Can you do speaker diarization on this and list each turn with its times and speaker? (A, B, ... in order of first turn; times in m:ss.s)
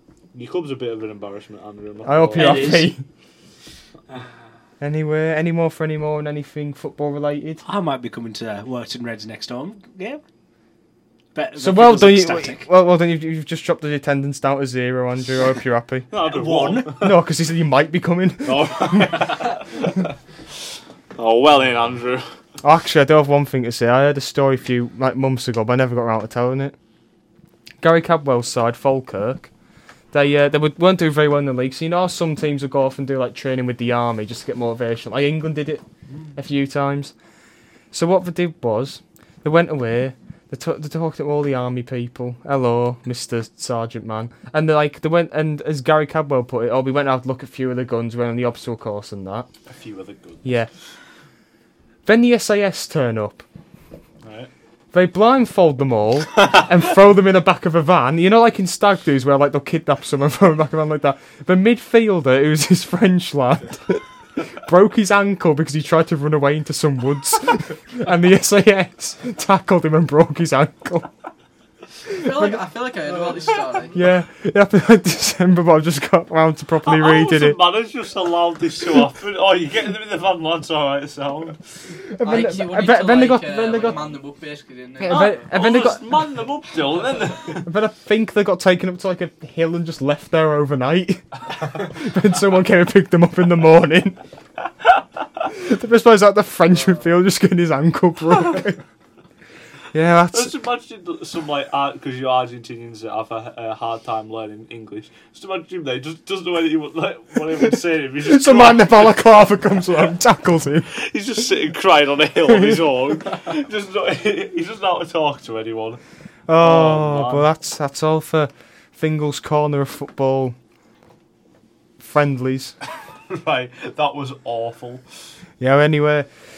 0:00.3-0:02.8 A
0:02.0-0:03.0 B
0:02.3-0:03.0 C
0:04.8-0:07.6 B
0:07.6-0:10.2 C
0:11.3-0:12.7 C
0:11.6-0:16.1 B
0:16.1-0:17.2 A
0:16.2-0:17.1 C
0:16.9-0:19.4 B
0:18.4-0:20.1 A
0:21.2-0:22.3 A
0:22.6-0:26.8 B
0:27.8-0:29.5 B
0:30.1-0:35.8 B
0:36.4-0:37.1 B
0:37.9-0:49.5 B
0:49.7-0:50.5 A
0:50.4-0:50.7 B
0:52.0-0:53.4 B
0:54.2-0:54.5 A
0:54.9-1:04.0 B
1:04.6-1:11.1 B
1:12.1-1:14.0 D
1:12.2-1:12.6 B
1:13.9-1:17.6 B
1:16.8-1:21.6 A
1:22.1-1:24.0 B
1:22.2-1:25.4 D
1:25.0-1:26.0 B
1:25.0-1:27.7 A
1:27.6-1:34.2 B
1:35.5-1:38.8 B
1:39.9-1:40.6 B
1:40.3-1:49.4 A
1:48.2-1:50.9 B
1:50.9-1:56.0 A
1:52.4-1:53.2 B
1:56.5-2:00.6 B
1:56.6-1:57.4 A
2:02.0-2:02.7 B
2:03.3-2:05.0 A
2:05.6-2:06.3 B